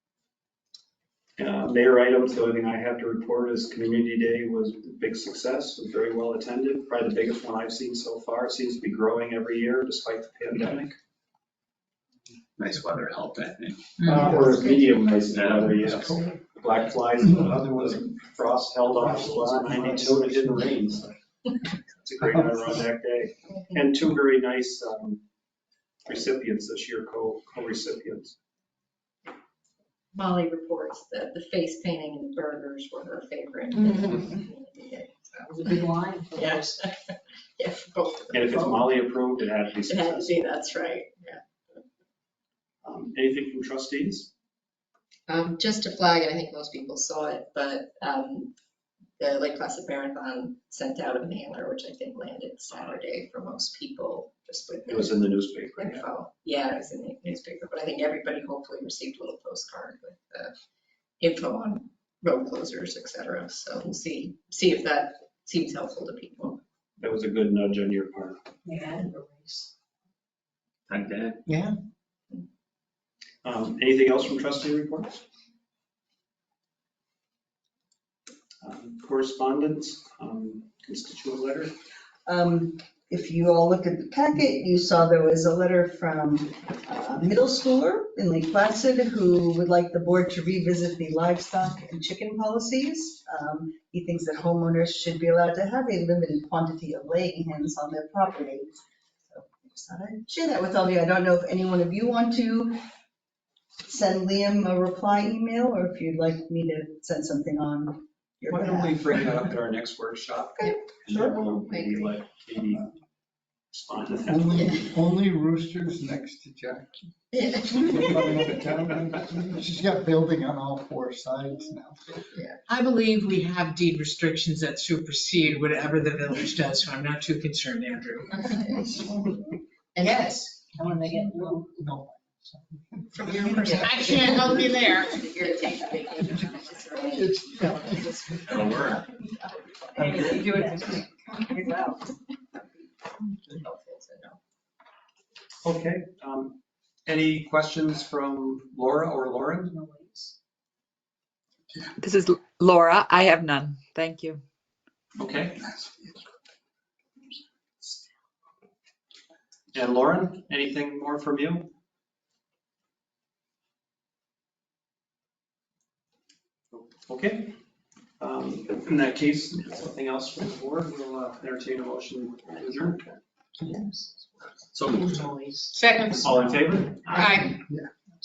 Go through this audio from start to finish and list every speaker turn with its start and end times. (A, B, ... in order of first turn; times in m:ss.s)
0:01.4-0:10.9 A
0:12.6-0:13.8 B
0:14.0-0:21.1 A
0:14.1-0:14.9 C
0:15.3-0:16.1 B
0:16.0-0:16.4 D
0:17.2-0:18.1 D
0:18.9-0:20.7 D
0:22.0-0:25.2 A
0:22.3-0:22.7 D
0:26.0-0:28.4 A
0:30.1-0:37.0 C
0:35.5-0:36.8 E
0:37.6-0:39.2 C
0:38.3-0:40.5 A
0:39.7-0:41.8 C
0:42.8-0:44.3 A
0:45.3-0:48.5 C
0:49.2-1:00.5 C
0:54.9-0:56.0 A
1:01.2-1:06.6 C
1:07.0-1:08.4 A
1:08.6-1:09.7 E
1:10.9-1:11.4 B
1:11.5-1:11.7 F
1:13.4-1:15.2 A
1:18.6-1:21.7 A
1:22.2-1:38.8 G
1:39.3-1:42.8 G
1:43.8-1:49.4 G
1:48.5-1:52.9 A
1:50.6-1:52.2 C
1:53.7-1:54.8 A
1:54.2-2:02.2 D
1:57.3-1:58.5 C
2:02.3-2:02.6 C
2:02.7-2:08.6 F
2:08.8-2:09.2 D
2:10.0-2:10.4 C
2:10.0-2:10.6 F
2:10.7-2:11.7 E
2:11.1-2:14.5 D
2:13.1-2:18.2 C
2:13.7-2:15.2 F
2:16.9-2:18.7 D
2:18.5-2:19.0 B
2:20.0-2:20.7 D
2:20.0-2:20.9 E
2:20.0-2:22.0 G
2:23.4-2:24.4 C
2:25.6-2:29.8 A
2:29.6-2:30.3 E
2:32.0-2:34.4 H
2:35.2-2:35.7 A
2:39.7-2:41.7 A
2:46.7-2:47.6 A
2:48.2-2:53.0 A
2:53.7-2:54.1 E
2:54.7-2:55.3 B
2:55.0-2:55.7 E
2:55.7-2:56.4 F
2:56.2-2:57.5 A
2:57.1-2:57.6 F